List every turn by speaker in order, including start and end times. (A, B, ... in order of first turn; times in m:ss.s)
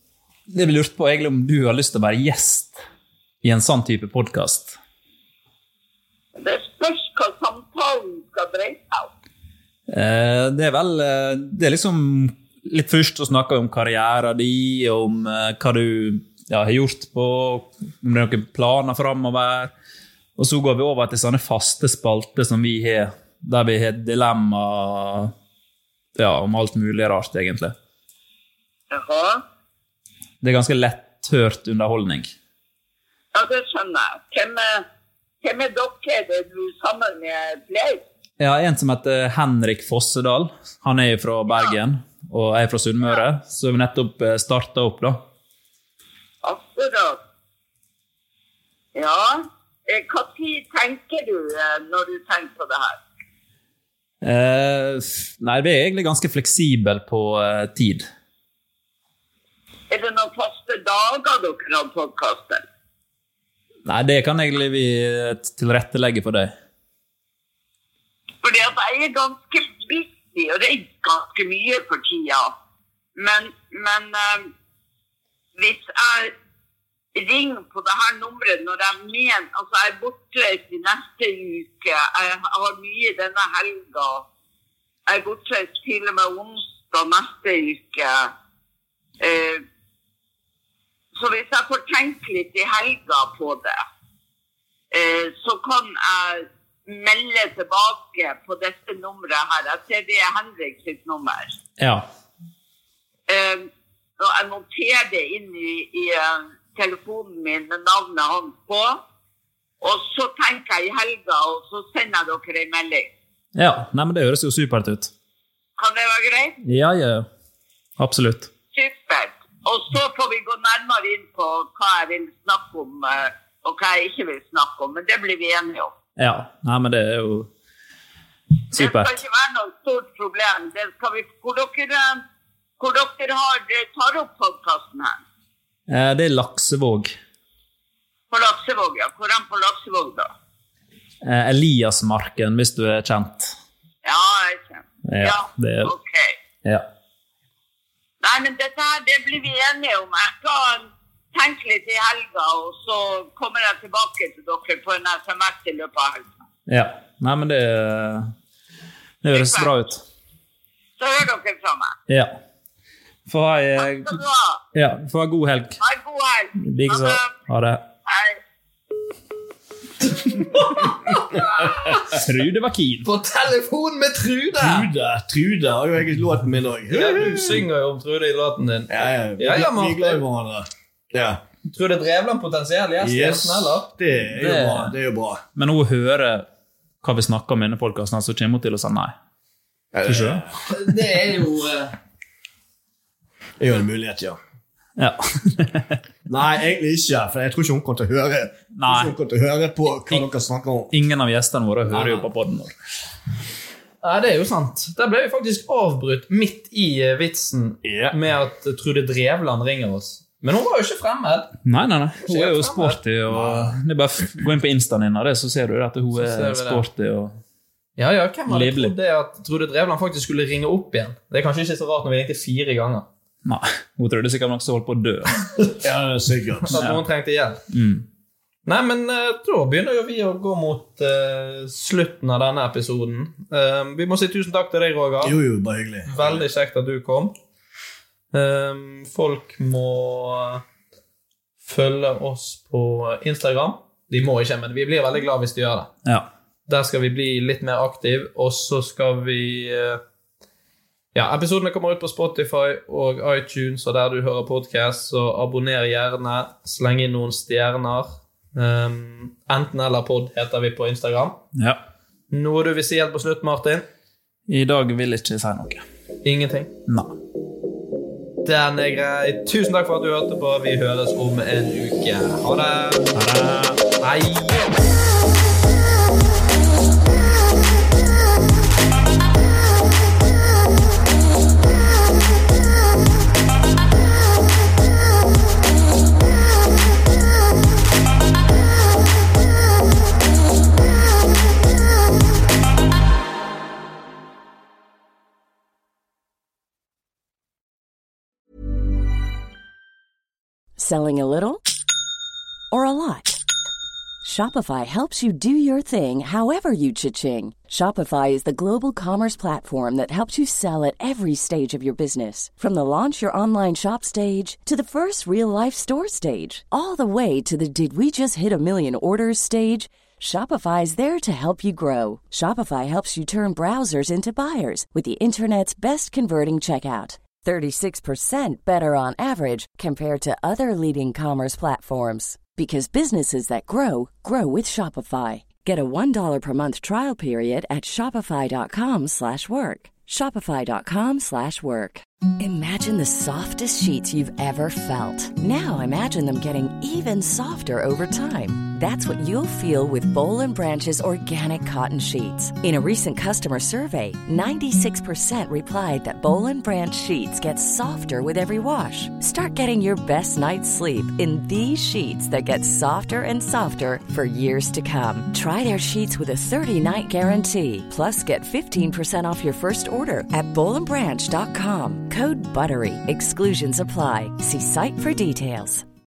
0:00.5-0:02.8 A
0:03.4-0:04.8 A
0:06.4-0:09.1 B
0:09.9-0:19.7 A
0:20.4-0:25.3 A
0:26.2-0:27.8 A
0:28.9-0:29.4 B
0:30.4-0:32.3 A
0:33.3-0:34.8 B
0:35.4-0:38.0 B
0:38.4-0:45.2 A
0:41.5-0:41.8 B
0:46.4-0:47.2 B
0:49.0-0:53.0 B
0:54.2-0:58.1 A
0:59.9-1:02.6 B
1:03.8-1:06.5 A
1:08.4-1:12.5 B
1:13.2-1:14.5 B
1:15.6-1:16.3 B
1:17.2-1:24.2 B
1:25.1-1:28.3 B
1:29.2-1:29.6 B
1:31.2-1:33.8 B
1:34.9-1:41.5 B
1:41.8-1:42.1 A
1:43.3-1:43.7 B
1:44.2-1:49.0 B
1:49.8-1:53.1 B
1:53.6-1:55.1 A
1:55.8-1:56.6 B
1:56.6-1:57.3 A
1:58.0-1:58.5 A
1:58.7-2:05.9 B
2:06.2-2:07.5 A
2:08.7-2:09.2 A
2:08.8-2:12.2 B
2:12.8-2:15.2 B
2:15.9-2:17.1 A
2:18.3-2:20.3 B
2:21.2-2:23.6 A
2:24.0-2:26.4 B
2:25.1-2:25.9 A
2:28.2-2:36.2 B
2:36.7-2:38.3 A
2:39.2-2:40.0 A
2:39.3-2:39.7 B
2:41.0-2:41.9 B
2:42.1-2:42.4 A
2:43.3-2:44.2 A
2:44.0-2:44.6 B
2:44.7-2:45.8 A
2:45.8-2:47.3 B
2:46.6-2:47.8 A
2:48.1-2:48.4 B
2:50.2-2:52.0 C
2:52.1-2:53.1 A
2:53.0-2:54.9 C
2:54.6-2:57.6 D
2:56.9-3:00.2 C
2:58.9-3:01.4 D
3:01.6-3:03.9 C
3:03.0-3:05.4 D
3:04.2-3:04.9 A
3:05.6-3:06.5 A
3:07.0-3:09.1 A
3:09.9-3:10.5 D
3:10.0-3:10.4 A
3:10.7-3:12.0 C
3:13.6-3:14.4 D
3:15.0-3:16.0 A
3:16.3-3:20.9 D
3:18.8-3:19.1 A
3:19.9-3:20.2 A
3:20.9-3:22.7 A
3:21.9-3:22.3 C
3:24.0-3:31.7 C
3:27.8-3:28.2 D
3:31.7-3:37.4 A
3:32.2-3:33.0 C
3:33.3-3:33.8 D
3:36.1-3:36.8 C
3:38.0-3:43.1 C
3:38.5-3:39.0 A
3:43.4-3:45.4 A
3:45.8-3:46.8 D
3:46.7-3:47.6 C
3:47.7-3:48.1 A
3:48.7-3:55.4 C
3:55.2-3:56.4 D
3:56.1-3:57.3 C
3:58.3-4:00.6 C
4:01.6-4:05.9 C
4:06.7-4:10.0 C
4:11.1-4:21.4 C
4:21.6-4:21.8 A
4:22.3-4:23.9 C
4:24.5-4:25.8 A
4:26.2-4:26.7 C
4:26.9-4:27.1 A
4:28.4-4:33.1 C
4:33.2-4:33.8 A
4:34.0-4:34.6 C
5:00.8-5:01.6 E
5:02.7-5:03.4 E
5:04.2-6:15.8 E